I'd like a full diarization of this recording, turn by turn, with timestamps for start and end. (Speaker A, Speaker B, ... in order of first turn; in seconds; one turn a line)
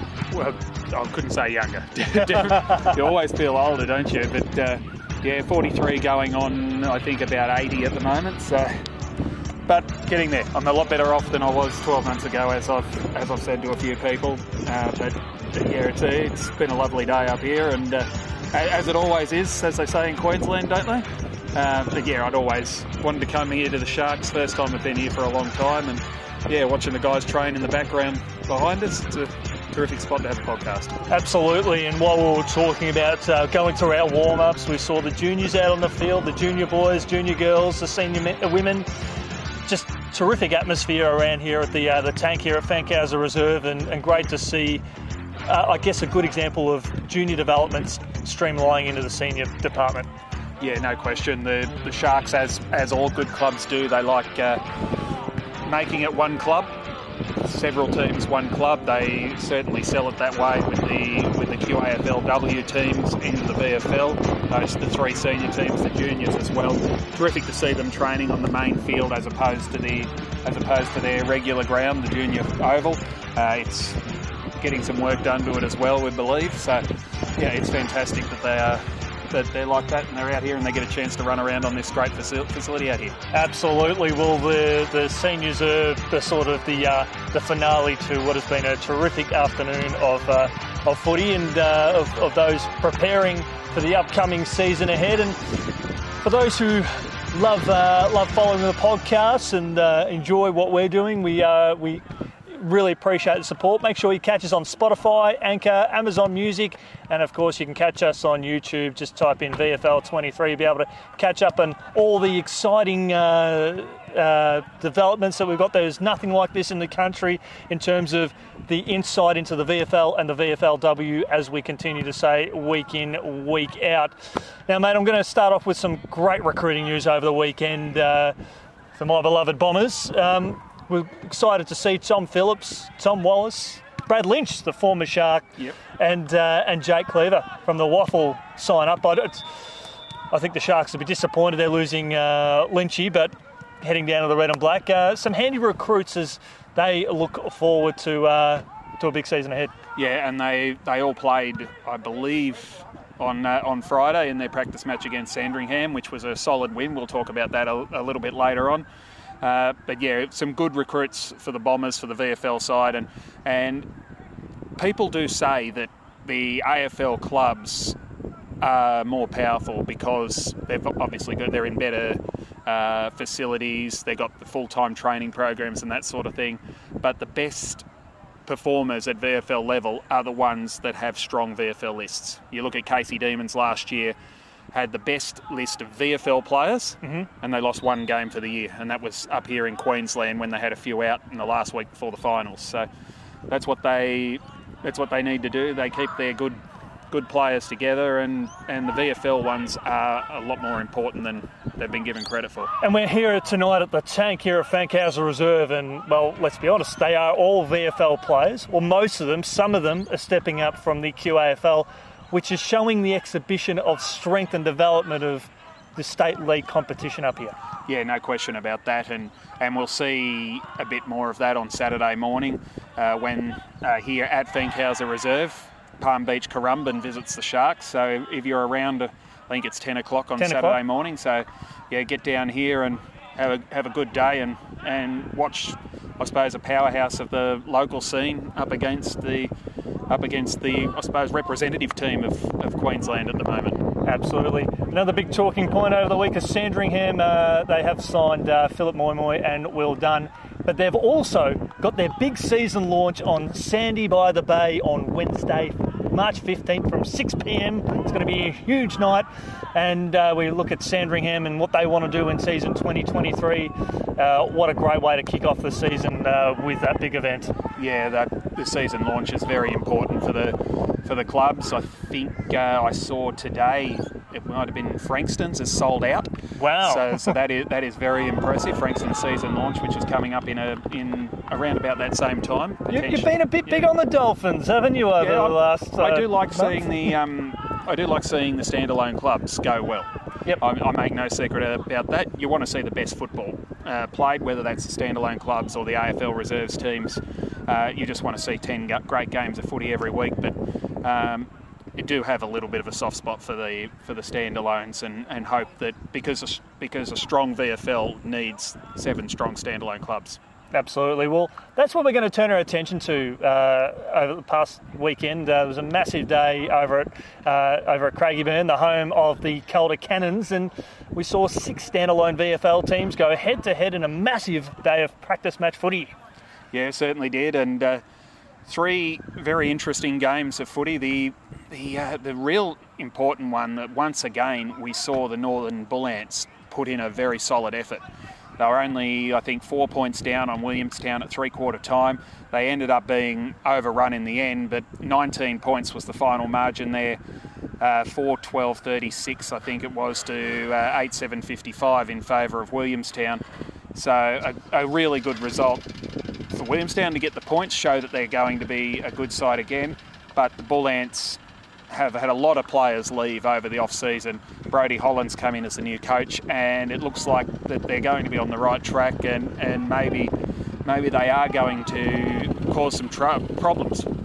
Speaker A: 0.3-8.7
Speaker B: 2.5-2.9
Speaker A: 9.7-31.0
Speaker B: 31.1-38.9
Speaker B: 39.7-44.8
Speaker B: 45.5-50.1
Speaker A: 50.6-54.6
Speaker A: 55.6-56.8
Speaker A: 57.4-74.0
Speaker A: 74.6-76.8
Speaker A: 77.4-83.2
Speaker B: 83.3-95.4
Speaker B: 96.2-124.2
Speaker B: 124.7-128.3
Speaker B: 128.9-135.5
Speaker B: 136.0-139.5
Speaker B: 140.3-149.7
Speaker A: 150.0-158.8
Speaker A: 159.4-163.9
Speaker A: 164.8-168.0
Speaker A: 168.6-177.9
Speaker A: 178.4-184.2
Speaker A: 184.7-192.9
Speaker A: 193.5-196.6
Speaker A: 197.1-202.7
Speaker B: 202.8-217.6
Speaker A: 217.9-239.5
Speaker B: 230.4-230.8
Speaker A: 240.1-243.8
Speaker B: 244.0-267.5
Speaker A: 267.8-283.9
Speaker B: 276.6-277.3
Speaker B: 282.9-287.1
Speaker A: 285.2-290.1
Speaker A: 290.6-310.4
Speaker B: 310.7-326.1
Speaker A: 326.7-328.0
Speaker A: 328.7-338.0
Speaker A: 338.6-347.2
Speaker A: 347.8-353.4
Speaker A: 353.9-355.9
Speaker A: 356.5-370.3
Speaker A: 370.8-374.1